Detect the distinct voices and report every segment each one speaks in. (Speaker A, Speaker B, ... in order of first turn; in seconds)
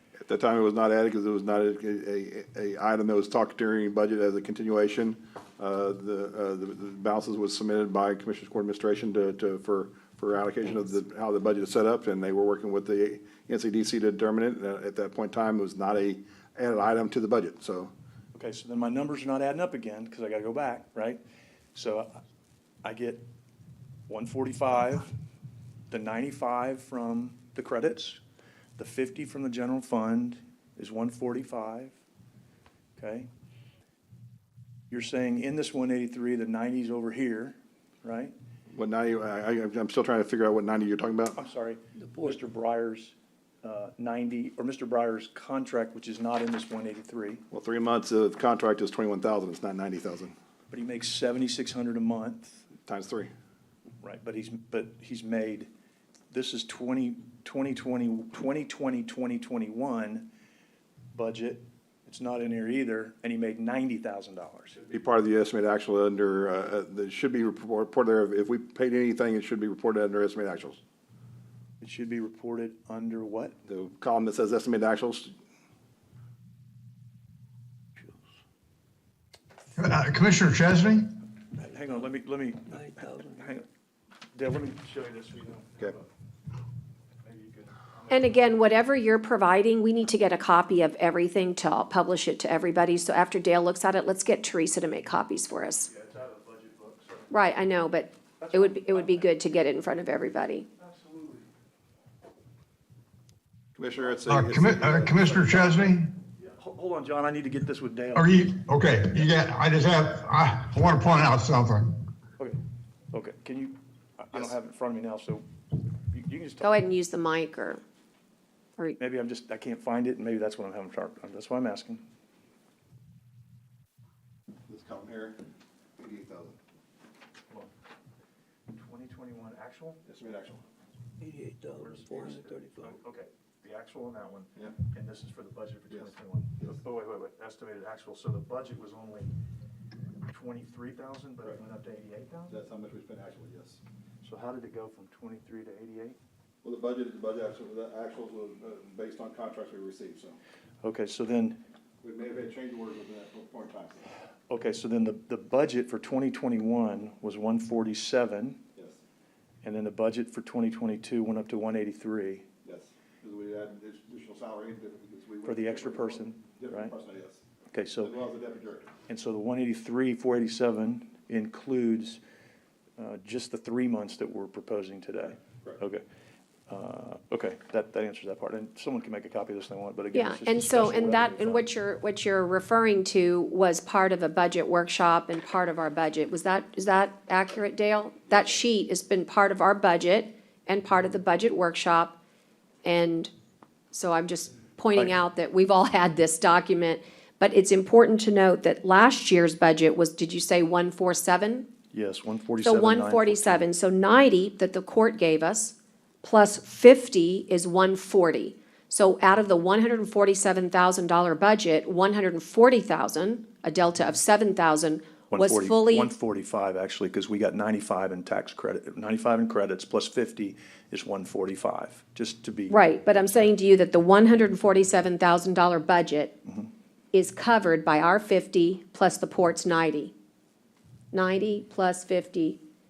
Speaker A: 0.2-17.9, 38.7-41.4, 47.5-50.3, 52.9-53.3, 64.8-70.8, 73.7-75.3, 103.8-105.9, 124.7-125.4, 126.0-126.5, 130.1-130.6, 135.9-136.8, 142.5-143.8, 146.6-150.4, 152.0-154.1, 162.6-167.4, 168.0-168.9
Speaker B: 18.3-21.2, 21.7-22.2, 22.8-23.2, 24.1-25.1, 25.9-28.2, 28.8-31.9, 33.0-33.3, 34.9-38.3, 41.4-47.4, 50.7-52.6, 54.0-55.7, 56.3-60.3, 61.1-64.8, 71.8-73.5, 81.5-83.7, 84.3-86.1, 87.2-88.6, 95.9-97.3, 98.4-99.3, 100.8-101.5, 106.4-108.5, 113.1-115.4, 116.1-116.8, 119.0-122.0, 128.7-130.0, 131.7-139.3, 140.3-142.5, 144.2-146.2, 150.8-151.6, 154.5-158.6, 159.6-162.4, 165.4-166.9, 167.7-168.1, 169.1-172.2, 173.0-176.0, 176.7-181.6, 201.9-203.6, 215.3-223.5
Speaker C: 79.8-81.1, 104.3-106.1, 108.1-111.9
Speaker D: 82.7-83.5, 131.2-132.9
Speaker E: 88.1-95.9, 97.3-100.7, 116.6-117.8, 180.1-192.2, 192.8-193.3, 193.9-201.7, 202.6-216.1, 222.7-226.3, 227.1-230.1, 231.1-232.6